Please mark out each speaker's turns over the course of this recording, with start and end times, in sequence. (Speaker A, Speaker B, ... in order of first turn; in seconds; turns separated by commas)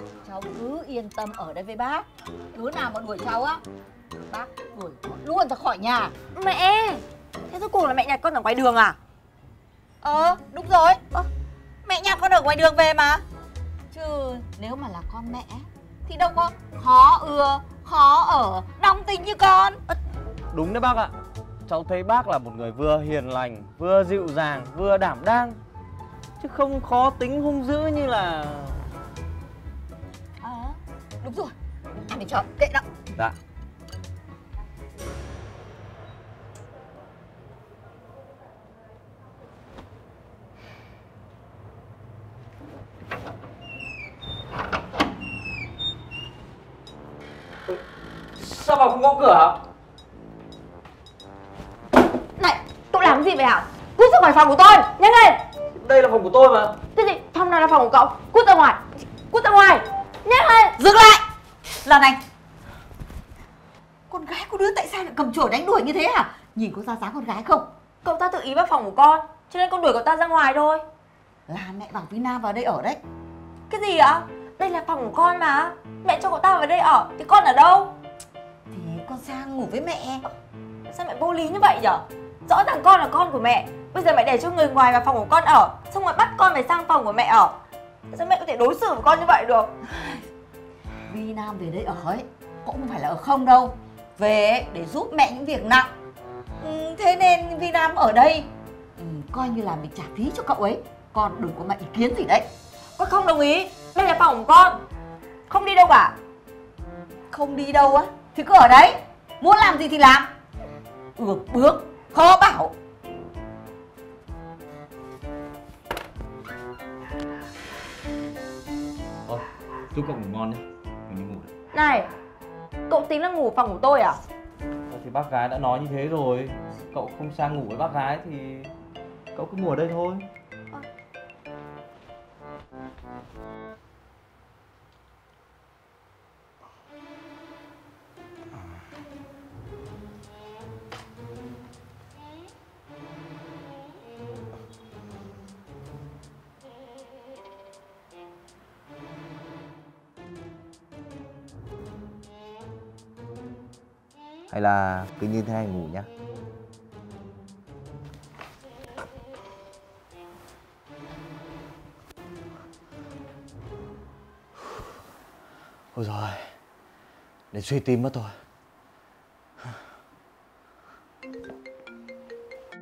Speaker A: 0.2-3.6, Speaker A: 4.3-6.1, Speaker B: 6.3-9.0, Speaker A: 10.0-11.0, Speaker A: 11.8-13.2, Speaker A: 13.9-19.8, Speaker C: 20.5-21.1, Speaker C: 21.6-25.6, Speaker C: 26.4-28.8, Speaker A: 30.4-32.9, Speaker C: 48.4-49.6, Speaker B: 52.4-55.4, Speaker C: 55.7-56.8, Speaker B: 56.9-60.8, Speaker A: 60.8-61.2, Speaker A: 61.8-62.2, Speaker A: 64.1-67.7, Speaker B: 68.0-70.8, Speaker A: 71.5-73.0, Speaker B: 73.7-77.9, Speaker A: 78.7-80.2, Speaker B: 80.9-87.6, Speaker B: 88.1-89.7, Speaker A: 91.1-95.9, Speaker A: 96.6-102.5, Speaker B: 103.0-104.8, Speaker B: 105.5-106.2, Speaker A: 107.3-110.3, Speaker A: 111.2-112.7, Speaker C: 119.2-121.5, Speaker B: 121.7-122.1, Speaker B: 122.9-124.2, Speaker C: 124.9-128.7, Speaker C: 129.3-130.2, Speaker C: 154.5-156.1, Speaker C: 165.9-166.5, Speaker C: 167.5-168.3